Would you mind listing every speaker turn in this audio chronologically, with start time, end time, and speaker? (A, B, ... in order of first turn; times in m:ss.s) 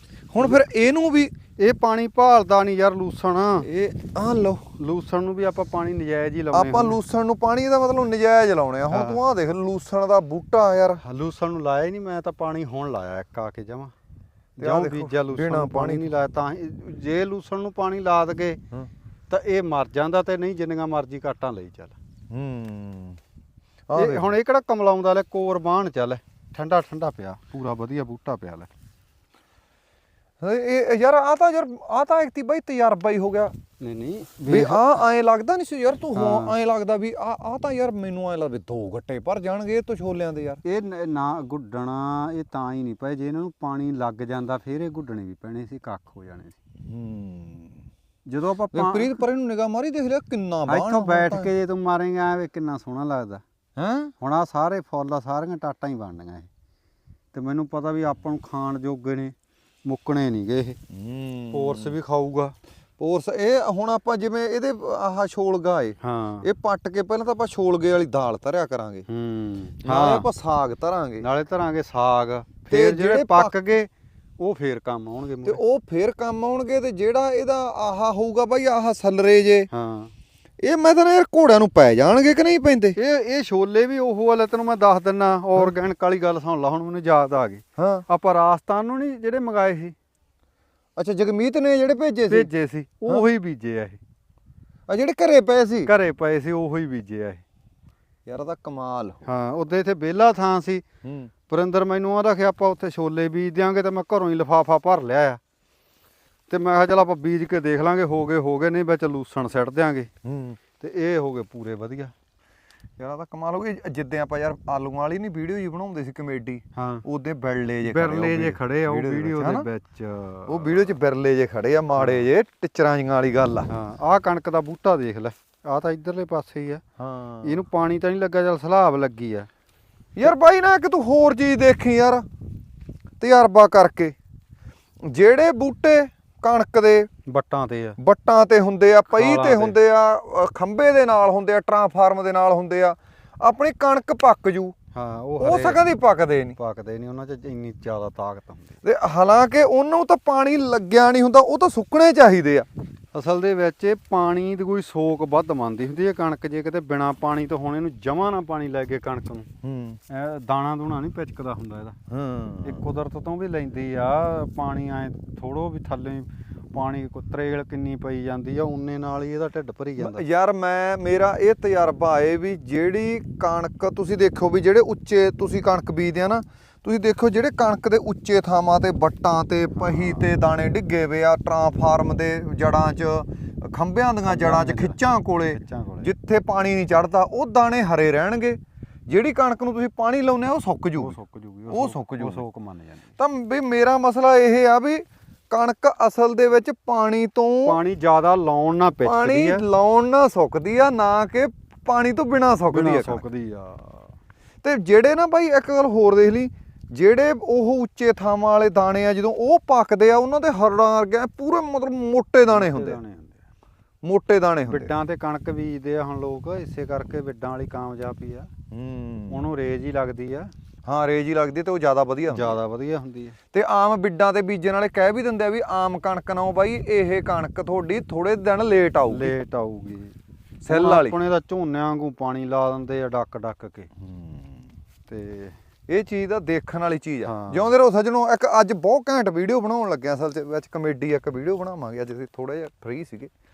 0:00.3-0:01.3 A
0:01.6-0:03.7 B
0:03.6-0:04.6 A
0:04.8-0:07.0 B
0:06.5-0:11.0 A
0:08.9-0:09.2 B
0:11.0-0:13.9 B
0:14.6-0:18.6 B
0:14.6-0:16.0 A
0:19.3-0:22.0 B
0:22.3-0:23.2 A
0:23.9-0:24.3 A
0:23.9-0:28.7 B
0:30.4-0:33.5 A
0:33.8-0:35.0 B
0:34.5-0:40.6 A
0:36.1-0:36.6 B
0:40.6-0:46.6 B
0:46.8-0:47.8 A
0:48.2-0:49.2 B
0:48.7-0:51.5 A
0:50.7-0:53.4 B
0:53.8-0:54.1 A
0:54.2-0:56.5 B
0:57.3-0:59.3 B
0:59.8-1:00.8 B
1:00.9-1:02.0 A
1:01.5-1:02.5 B
1:03.0-1:09.0 A
1:06.0-1:06.5 B
1:09.1-1:10.3 B
1:09.8-1:11.2 A
1:11.2-1:15.6 B
1:12.7-1:13.5 A
1:15.4-1:19.7 A
1:19.7-1:20.1 B
1:20.6-1:23.0 A
1:23.0-1:29.9 B
1:27.8-1:28.0 A
1:31.0-1:32.5 A
1:32.3-1:34.0 B
1:34.9-1:35.9 A
1:35.8-1:37.4 B
1:38.2-1:39.2 A
1:39.2-1:40.8 B
1:41.0-1:41.3 A
1:41.5-1:45.4 B
1:46.5-1:50.1 B
1:50.2-1:50.6 A
1:50.8-1:52.1 B
1:53.0-1:59.6 A
1:56.7-1:57.0 B
1:57.8-2:00.9 B
2:00.5-2:03.7 A
2:02.0-2:02.2 B
2:03.7-2:06.8 B
2:07.0-2:07.6 A
2:07.4-2:09.5 B
2:10.2-2:12.2 A
2:13.2-2:14.1 A
2:15.0-2:17.1 A
2:17.2-2:18.0 B
2:18.0-2:24.7 A
2:19.1-2:19.8 B
2:24.9-2:25.8 B
2:25.4-2:26.6 A
2:26.6-2:28.8 B
2:28.8-2:32.7 A
2:33.1-2:39.5 B
2:39.6-2:40.0 A
2:40.1-2:42.0 B
2:42.1-2:42.8 A
2:42.6-2:50.2 B
2:50.0-3:11.2 A
2:59.8-3:00.2 B
3:04.2-3:06.1 B
3:11.0-3:13.0 B
3:11.7-3:12.4 A
3:13.2-3:17.8 A
3:17.6-3:19.6 B
3:19.0-3:23.2 A
3:22.7-3:24.1 B
3:24.6-3:33.0 A
3:32.4-3:33.4 B
3:34.0-3:34.9 A
3:34.6-3:38.5 B
3:38.7-3:39.4 A
3:39.3-3:40.5 B
3:40.8-3:42.6 A
3:42.3-3:43.4 B
3:43.5-3:49.3 A
3:49.1-3:50.2 B
3:50.6-3:51.2 A
3:50.7-3:53.9 B
3:54.0-3:54.6 A
3:55.1-3:55.5 B
3:55.9-4:03.3 A
3:57.2-3:57.7 B